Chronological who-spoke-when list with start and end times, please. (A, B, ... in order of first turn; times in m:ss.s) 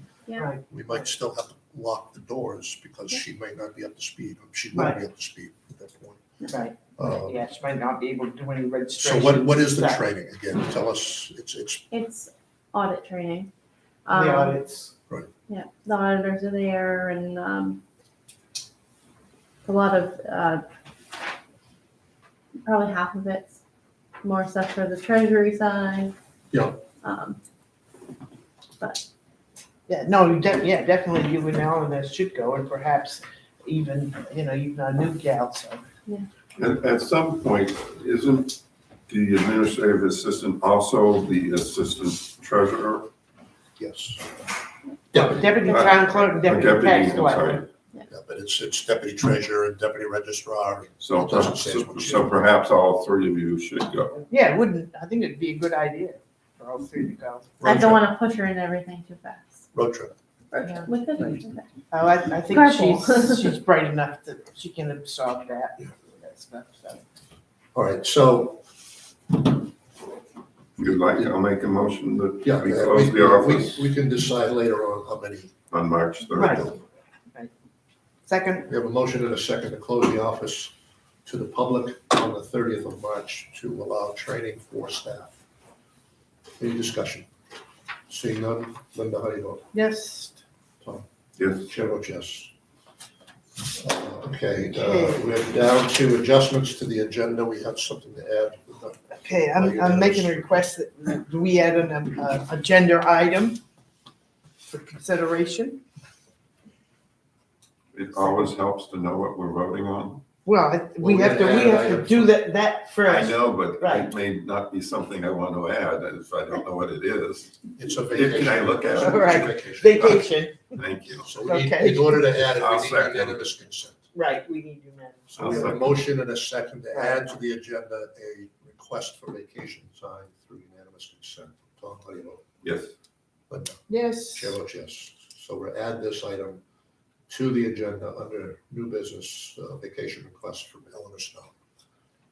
0:00.3-0:00.5 A
0:00.4-0:00.7 B
0:00.7-0:06.2 C
0:04.7-0:05.0 B
0:06.5-0:10.0 B
0:07.0-0:07.4 C
0:09.0-0:11.8 C
0:11.9-0:13.5 A
0:14.0-0:14.6 A
0:14.1-0:14.9 B
0:15.5-0:17.8 A
0:19.6-0:20.6 A
0:22.6-0:23.6 A
0:24.2-0:26.1 A
0:26.5-0:26.8 C
0:27.0-0:27.4 A
0:29.9-0:35.8 B
0:36.6-0:43.1 D
0:43.8-0:44.2 C
0:45.1-0:45.6 C
0:45.1-0:47.7 B
0:45.6-0:47.7 D
0:48.1-0:52.4 C
0:51.0-0:54.2 D
0:54.3-0:57.6 B
0:57.6-0:58.1 C
0:57.6-0:59.6 A
0:59.7-1:00.1 C
1:00.5-1:01.7 A
1:00.6-1:01.3 B
1:01.9-1:07.0 B
1:02.5-1:03.5 A
1:07.7-1:08.6 C
1:10.8-1:13.9 D
1:12.4-1:15.5 C
1:15.7-1:16.7 D
1:16.3-1:16.7 B
1:18.2-1:18.7 B
1:18.7-1:20.7 C
1:21.2-1:25.4 C
1:26.6-1:27.3 C
1:28.1-1:29.6 C
1:29.7-1:30.4 B
1:30.8-1:32.5 C
1:31.4-1:31.7 D
1:33.8-1:40.6 C
1:34.7-1:35.2 B
1:39.2-1:43.6 B
1:44.7-1:45.8 B
1:47.9-1:50.2 D
1:50.4-1:54.1 B
1:51.0-1:52.3 C
1:53.0-2:01.3 D
1:57.8-2:00.0 C
1:59.0-2:00.8 B
2:01.2-2:04.0 C
2:01.4-2:02.2 B
2:02.3-2:03.5 D
2:04.1-2:05.7 B
2:05.3-2:12.5 C
2:05.4-2:06.0 D
2:06.9-2:07.2 B
2:12.6-2:12.9 D
2:13.5-2:16.6 C
2:13.9-2:14.6 B
2:17.3-2:21.5 C